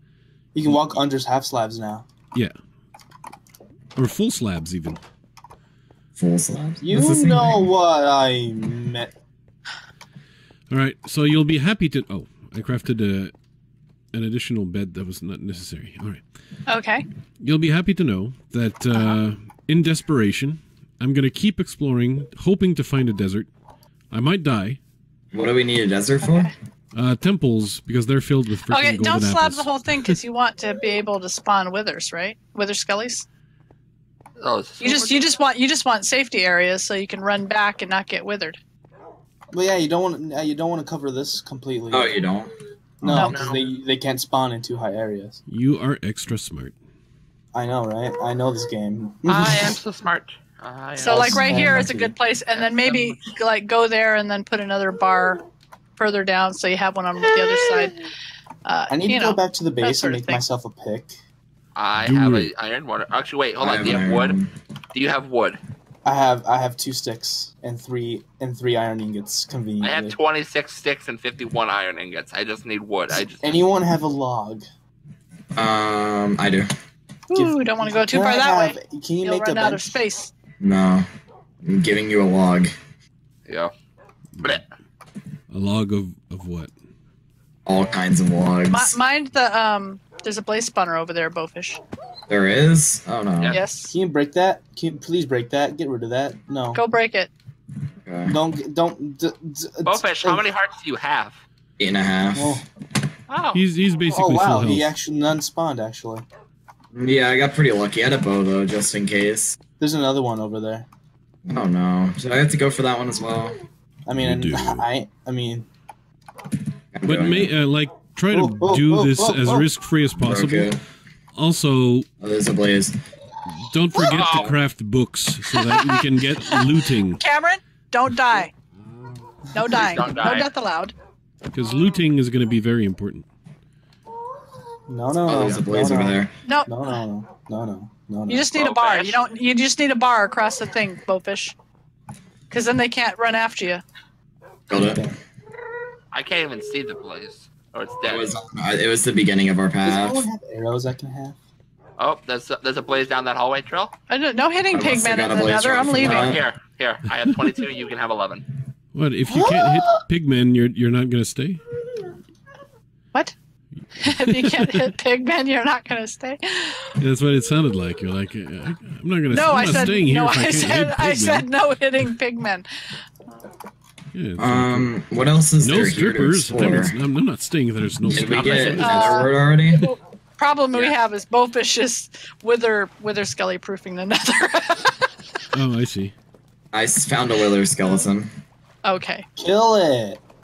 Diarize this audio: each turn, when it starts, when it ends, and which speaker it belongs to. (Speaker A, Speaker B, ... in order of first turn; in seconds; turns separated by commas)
Speaker A: 0.5-2.0, Speaker B: 4.0-5.0, Speaker C: 6.2-7.7, Speaker A: 6.8-9.1, Speaker B: 10.7-13.3, Speaker B: 14.1-16.2, Speaker D: 16.7-17.0, Speaker B: 17.4-23.5, Speaker B: 24.1-24.8, Speaker C: 25.3-26.5, Speaker D: 26.2-26.5, Speaker B: 26.9-29.8, Speaker D: 28.7-33.2, Speaker E: 34.4-35.3, Speaker D: 34.8-38.6, Speaker A: 39.5-42.2, Speaker C: 41.9-42.5, Speaker A: 43.0-45.4, Speaker E: 43.1-43.7, Speaker B: 45.5-46.7, Speaker A: 47.5-49.8, Speaker E: 49.2-51.5, Speaker D: 51.0-55.4, Speaker A: 51.0-52.1, Speaker E: 52.5-53.2, Speaker D: 56.0-58.0, Speaker D: 58.6-60.4, Speaker A: 58.9-61.1, Speaker E: 61.8-64.3, Speaker B: 62.0-62.5, Speaker C: 63.6-64.5, Speaker E: 64.9-65.6, Speaker A: 66.0-70.2, Speaker E: 69.8-73.4, Speaker A: 73.4-74.6, Speaker C: 75.5-76.7, Speaker D: 77.3-80.3, Speaker A: 77.3-80.0, Speaker C: 80.6-81.0, Speaker C: 81.6-82.7, Speaker E: 83.5-83.7, Speaker B: 85.5-86.7, Speaker C: 87.7-89.0, Speaker D: 88.7-91.8, Speaker C: 92.3-93.6, Speaker E: 93.4-93.6, Speaker D: 93.5-93.9, Speaker A: 93.9-96.8, Speaker D: 96.7-97.3, Speaker C: 98.0-98.3, Speaker A: 98.3-100.5, Speaker E: 99.8-101.4, Speaker C: 101.8-102.6, Speaker A: 102.3-102.6, Speaker E: 103.3-103.6, Speaker B: 103.5-104.9, Speaker A: 104.1-106.2, Speaker C: 106.9-109.6, Speaker A: 109.8-110.9, Speaker C: 111.5-113.6, Speaker A: 114.0-115.7, Speaker B: 114.1-114.9, Speaker C: 116.9-117.5, Speaker B: 117.0-120.8, Speaker A: 118.3-119.7, Speaker C: 120.2-120.8, Speaker B: 121.3-122.1, Speaker C: 122.2-122.9, Speaker B: 123.5-127.2, Speaker E: 124.0-124.5, Speaker D: 125.5-128.5, Speaker D: 129.5-130.9, Speaker E: 129.7-130.5, Speaker B: 131.5-133.3, Speaker A: 134.9-138.5, Speaker C: 135.2-136.3, Speaker D: 136.4-136.8, Speaker D: 138.3-141.5, Speaker E: 138.5-139.2, Speaker D: 142.5-143.8, Speaker C: 144.7-145.1, Speaker A: 144.7-145.1, Speaker E: 146.1-148.3, Speaker C: 148.0-150.2, Speaker A: 149.8-151.3, Speaker E: 152.0-153.9, Speaker D: 154.1-156.3, Speaker C: 154.7-156.4, Speaker E: 155.8-158.5, Speaker B: 158.9-161.6, Speaker A: 159.3-160.0, Speaker D: 164.0-166.9, Speaker B: 164.1-164.8, Speaker B: 167.0-171.4, Speaker D: 169.3-172.7, Speaker B: 174.1-174.9, Speaker C: 174.4-176.9, Speaker B: 175.6-179.1, Speaker C: 178.1-179.9, Speaker E: 178.4-179.1, Speaker D: 178.8-185.1, Speaker E: 180.7-181.0, Speaker B: 185.5-186.1, Speaker C: 186.7-188.3, Speaker D: 188.8-189.2, Speaker A: 189.4-190.2